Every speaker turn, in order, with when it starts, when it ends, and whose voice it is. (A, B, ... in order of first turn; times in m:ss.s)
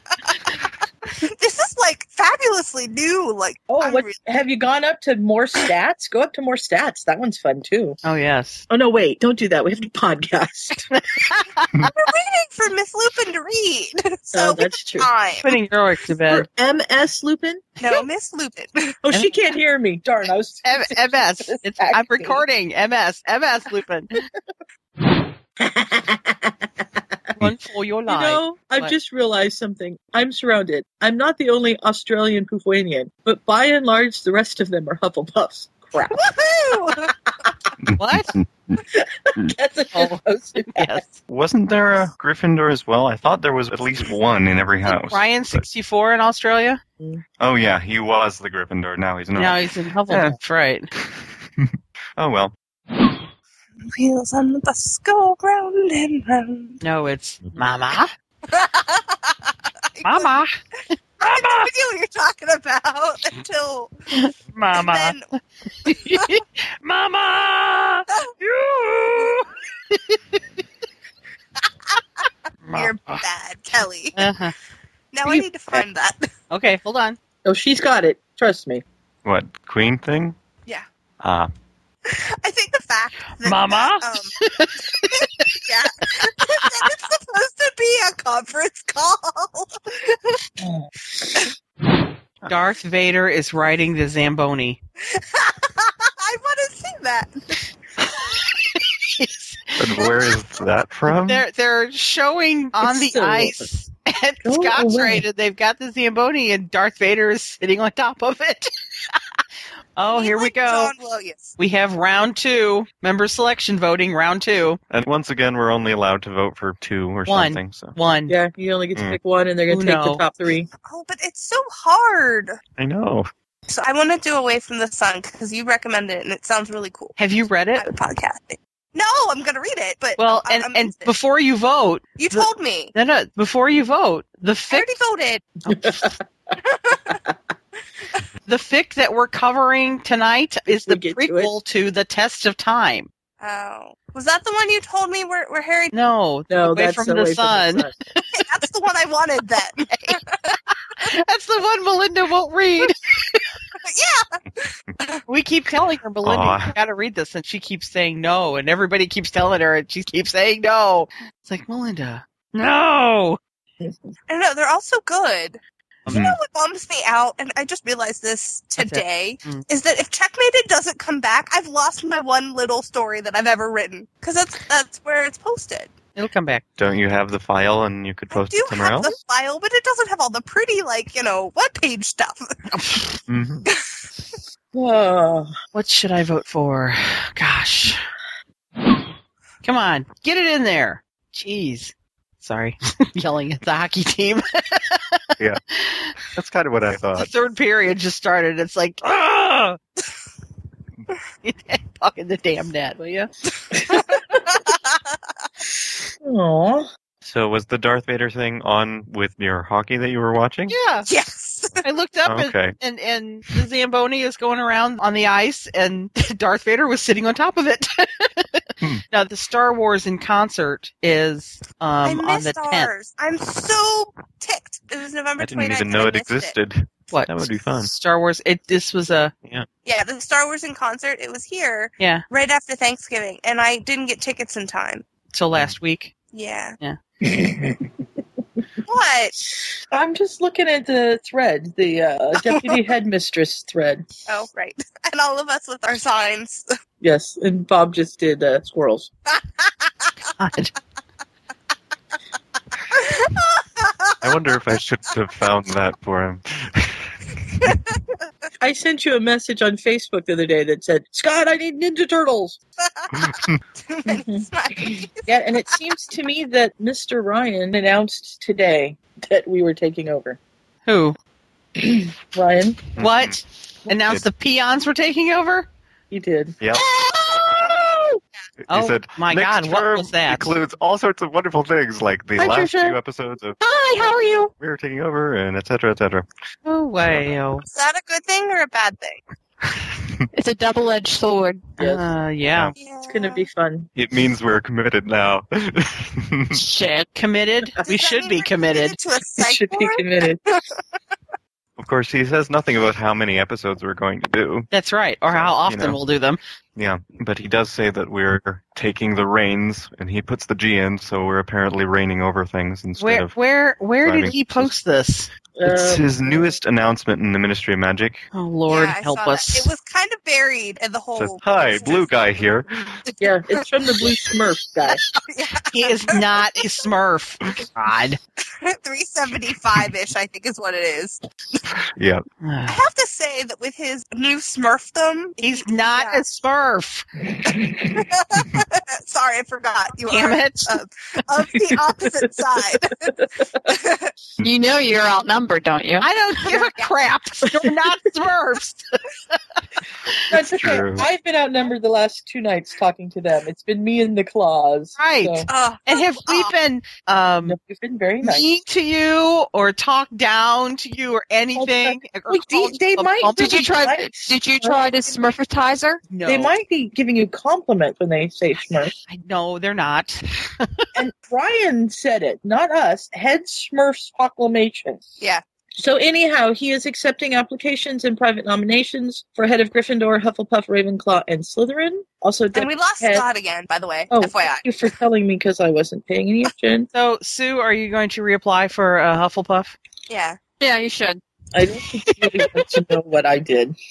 0:01.2-0:04.2 A
0:03.7-0:08.0 B
0:08.0-0:08.7 C
0:08.7-0:10.9 B
0:11.1-0:11.9 C
0:11.9-0:15.5 A
0:14.3-0:15.1 B
0:15.4-0:16.5 C
0:16.3-0:17.7 B
0:17.8-0:19.0 A
0:19.0-0:22.4 B
0:20.6-0:24.2 C
0:25.6-0:27.4 B
0:27.4-0:29.0 C
0:28.1-0:36.3 B
0:36.1-0:37.1 A
0:37.9-0:38.8 D
0:38.0-0:38.4 C
0:38.9-0:41.0 B
0:39.9-0:40.2 C
0:40.8-0:41.2 C
0:41.3-0:45.6 D
0:44.8-0:46.8 C
0:47.4-0:50.4 D
0:49.4-0:50.9 C
0:51.0-0:52.5 D
0:53.8-0:56.8 A
0:56.8-0:58.1 C
0:58.5-0:59.4 A
1:00.0-1:00.4 A
1:00.0-1:00.5 C
1:01.2-1:01.7 C
1:01.2-1:03.9 A
1:04.1-1:05.2 C
1:04.7-1:05.2 A
1:05.8-1:10.4 C
1:12.6-1:13.2 C
1:12.7-1:14.3 A
1:14.2-1:14.6 C
1:15.1-1:16.3 A
1:16.5-1:17.2 C
1:17.4-1:18.8 B
1:19.2-1:20.4 D
1:21.2-1:21.5 D
1:22.0-1:24.3 A
1:23.4-1:25.5 C
1:25.1-1:30.4 A
1:26.2-1:26.7 C
1:30.6-1:30.9 B
1:32.5-1:34.8 C
1:35.1-1:37.4 A
1:38.1-1:39.8 C
1:39.8-1:41.4 D
1:40.0-1:40.3 A
1:41.1-1:49.2 C
1:42.8-1:43.7 B
1:44.4-1:45.2 B
1:50.0-1:50.9 C
1:50.0-1:51.6 A
1:51.6-1:54.8 C
1:54.9-1:57.9 D
1:57.3-1:58.4 C
1:58.3-2:00.7 B
1:59.0-1:59.2 D
1:59.7-2:00.2 C
2:00.9-2:02.6 A
2:02.8-2:03.3 D
2:03.7-2:07.2 A
2:07.2-2:07.8 C
2:07.8-2:11.1 A
2:10.2-2:14.9 C
2:12.2-2:12.9 A
2:14.7-2:15.5 A
2:15.7-2:16.5 B
2:15.7-2:16.1 C
2:16.7-2:17.2 A
2:18.5-2:23.1 C
2:20.7-2:21.5 B
2:23.4-2:25.9 A
2:25.9-2:27.9 C
2:26.5-2:27.9 B
2:28.3-2:30.6 A
2:31.0-2:33.5 C
2:33.8-2:35.2 A
2:35.3-2:43.4 C
2:36.2-2:36.7 D
2:44.3-2:55.9 A
2:46.1-2:46.4 D
2:48.8-2:49.6 C
2:56.2-2:56.6 C
2:56.8-2:59.1 D
2:58.3-3:02.6 A
3:02.7-3:03.0 C
3:03.3-3:03.7 D
3:04.7-3:05.5 B
3:05.7-3:08.0 C
3:09.6-3:15.2 C
3:15.7-3:16.2 C
3:16.3-3:17.3 D
3:17.2-3:19.8 C
3:21.4-3:23.3 C
3:23.9-3:24.8 A
3:26.2-3:26.9 B
3:27.2-3:30.8 D
3:30.7-3:31.1 C
3:31.1-3:31.8 A
3:31.8-3:42.9 C
3:32.2-3:32.8 D
3:42.0-3:46.6 A
3:45.4-3:47.9 D
3:47.1-3:49.3 C
3:49.8-3:55.0 A
3:52.0-3:52.2 C
3:55.3-3:56.1 C
3:56.3-3:56.8 A
3:57.2-3:57.9 B
3:58.8-3:59.4 A
3:59.9-4:04.1 B
4:02.5-4:02.8 A
4:04.3-4:06.7 A
4:07.0-4:09.1 B
4:10.4-4:10.7 C
4:12.9-4:14.6 A
4:14.2-4:17.8 D
4:18.6-4:22.6 B
4:22.8-4:25.8 A
4:23.1-4:23.6 D
4:24.1-4:30.4 B
4:30.9-4:31.2 C
4:31.8-4:32.8 B
4:33.0-4:34.3 D
4:33.0-4:35.7 C
4:36.1-4:38.2 B
4:36.6-4:36.9 D
4:38.7-4:43.6 D
4:38.7-4:40.5 C
4:42.4-4:43.0 B
4:43.7-4:44.4 E
4:44.6-4:46.3 D
4:46.7-4:47.6 C
4:47.7-4:49.2 A
4:50.3-4:51.8 E
4:51.8-4:52.7 C
4:52.5-4:52.7 D
4:52.8-4:53.5 A
4:53.0-4:53.9 B
4:54.0-4:56.6 D
4:56.5-4:57.1 E
4:57.2-4:59.0 C
4:57.9-5:00.6 A
4:59.4-5:00.5 B
5:01.8-5:04.7 D
5:04.7-5:06.4 C
5:05.3-5:06.0 D
5:06.8-5:13.3 D
5:13.0-5:15.3 C
5:14.0-5:14.7 D
5:15.6-5:16.6 B
5:15.7-5:18.3 D
5:18.3-5:19.7 C
5:18.7-5:23.2 A
5:21.2-5:22.7 D
5:23.2-5:25.0 B
5:25.3-5:26.4 A
5:25.7-5:28.2 C
5:28.6-5:31.6 A
5:32.0-5:32.2 D
5:32.4-5:32.8 C
5:32.7-5:36.2 A
5:35.4-5:37.1 C
5:37.4-5:37.9 B
5:37.9-5:43.1 A
5:40.1-5:40.8 C
5:41.5-5:43.5 B
5:43.7-5:44.1 A
5:44.4-5:46.1 E
5:46.0-5:50.2 C
5:50.3-5:55.5 B
5:50.3-5:51.1 D
5:55.0-5:57.6 C
5:55.5-5:56.5 A
5:57.4-5:58.5 B
5:58.2-6:03.7 C
6:01.6-6:05.2 B
6:03.4-6:06.0 E
6:06.1-6:06.5 C
6:06.2-6:08.9 B
6:09.1-6:10.9 C
6:11.0-6:15.0 B
6:15.8-6:23.2 B
6:22.5-6:24.7 A
6:24.1-6:26.9 B
6:26.9-6:29.8 C
6:30.1-6:30.4 A
6:30.6-6:31.2 E
6:31.5-6:33.8 B